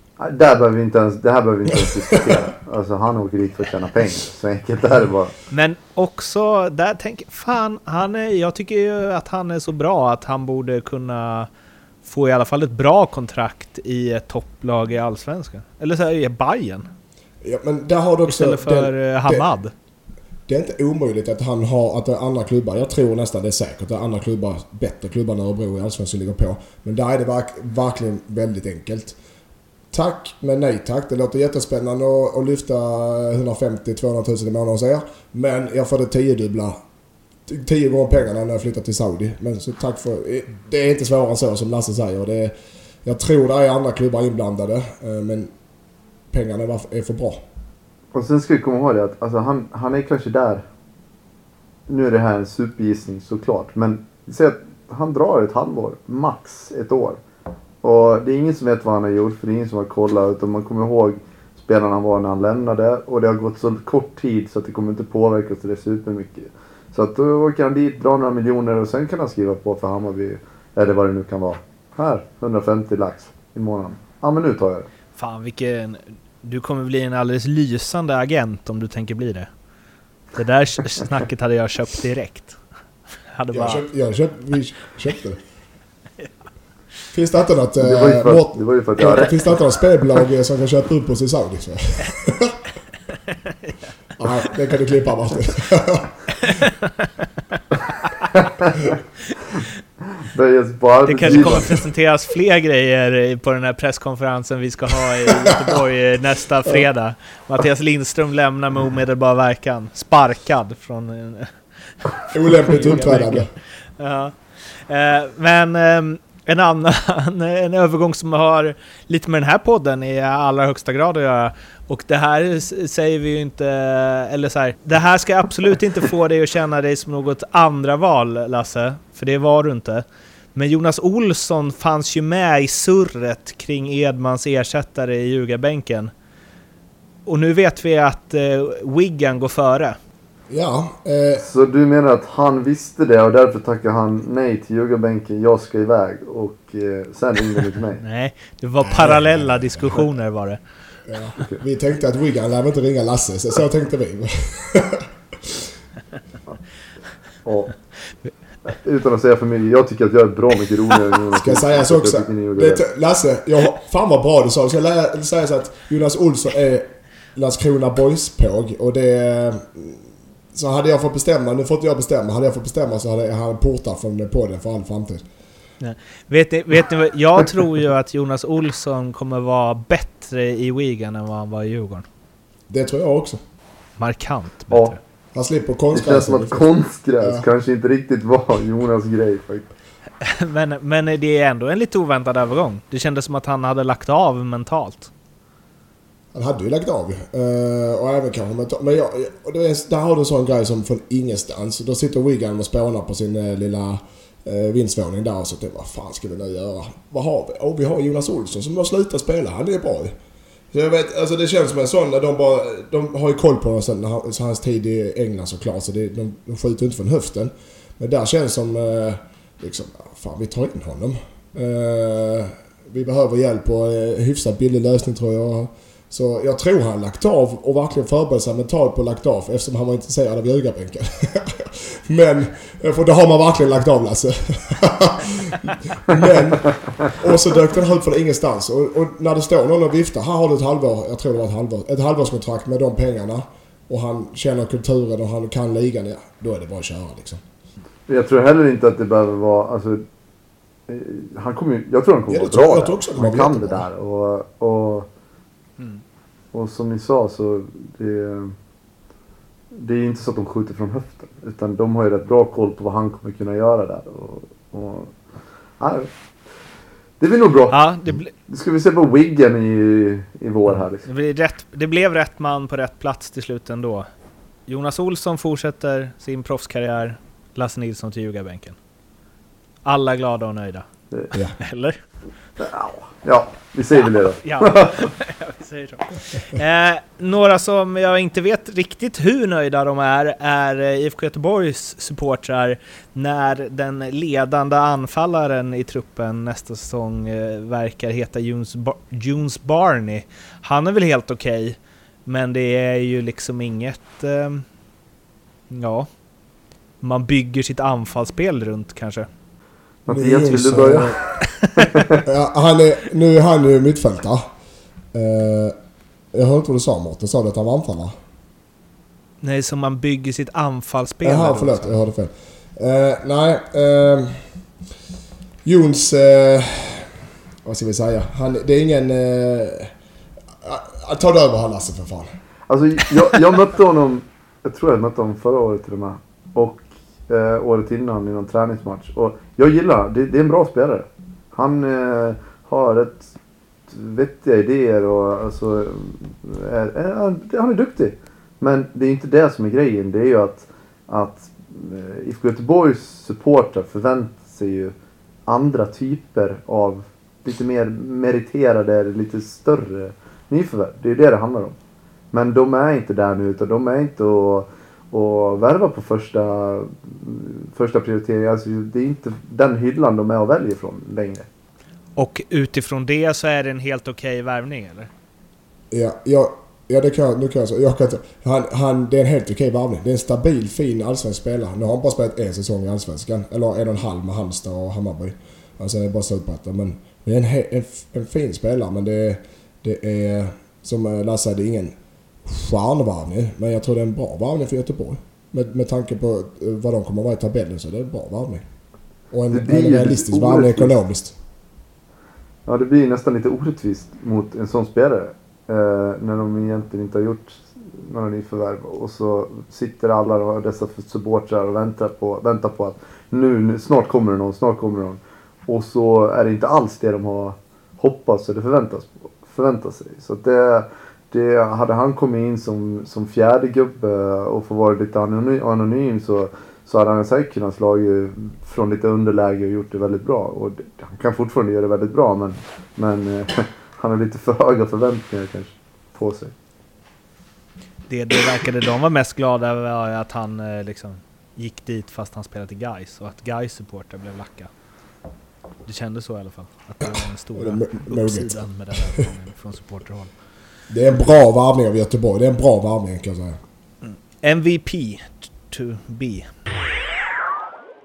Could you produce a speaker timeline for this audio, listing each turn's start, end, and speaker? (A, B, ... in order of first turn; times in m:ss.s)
0:00.2-0:05.3 A
0:05.5-0:11.5 B
0:12.0-0:16.9 B
0:17.4-0:19.5 C
0:18.3-0:19.7 B
0:20.5-0:29.2 C
0:29.9-0:36.8 C
0:37.5-0:42.5 C
0:43.0-0:45.5 C
0:46.3-0:47.4 C
0:48.1-0:50.6 A
0:51.9-0:57.2 A
0:57.8-1:14.9 A
1:15.2-1:19.5 B
1:20.3-1:22.6 B
1:23.3-1:23.8 B
1:23.5-1:25.4 C
1:27.1-1:32.6 C
1:27.8-1:29.6 A
1:33.4-1:33.7 B
1:34.2-1:36.6 C
1:36.4-1:38.3 B
1:38.3-1:38.9 A
1:40.2-1:41.8 A
1:41.0-1:53.4 B
1:41.2-1:41.7 C
1:45.4-1:45.8 C
1:52.3-1:53.5 C
1:54.0-2:10.0 B
2:10.5-2:16.1 B
2:17.2-2:20.0 B
2:20.5-2:21.4 C
2:21.4-2:28.0 A
2:28.0-2:30.6 B
2:28.8-2:30.0 C
2:31.1-2:35.7 C
2:37.4-2:37.7 A
2:38.7-2:42.8 A
2:41.3-2:55.2 C
2:55.8-3:02.0 B
3:02.7-3:03.4 C
3:04.0-3:05.0 B
3:05.3-3:06.7 C
3:05.9-3:09.7 A
3:07.2-3:07.4 C
3:10.2-3:15.1 B
3:16.3-3:30.1 C
3:30.7-4:07.4 C
4:08.1-4:10.0 A
4:10.9-4:15.1 A
4:12.3-4:13.8 C
4:16.5-4:18.5 A
4:19.7-4:25.1 A
4:25.8-4:26.1 A
4:27.2-4:27.8 A
4:27.7-4:28.3 B
4:28.4-4:31.1 A
4:31.0-4:34.1 B
4:34.7-4:38.8 B
4:39.8-4:40.8 B
4:41.6-4:42.0 B
4:42.6-4:45.0 A
4:44.4-5:04.6 B
5:05.7-5:06.1 B
5:07.0-5:09.3 B
5:10.0-5:12.2 A
5:10.1-5:11.2 C
5:12.2-5:14.4 C
5:15.1-5:15.7 C
5:16.3-5:18.1 C
5:19.4-5:22.0 B
5:21.2-5:24.4 C
5:25.6-5:27.1 C
5:27.6-5:29.9 C
5:30.6-5:32.3 C
5:32.7-5:43.3 A
5:43.9-5:54.9 A
5:55.5-6:01.7 A
6:02.3-6:11.5 A
6:12.2-6:15.1 B
6:15.9-6:38.6 C
6:39.3-6:41.4 C
6:39.5-6:41.0 A
6:42.6-7:16.6 A
7:18.1-7:24.7 B
7:25.8-7:30.3 B
7:27.5-7:29.2 C
7:30.9-7:33.6 C
7:34.0-7:36.5 B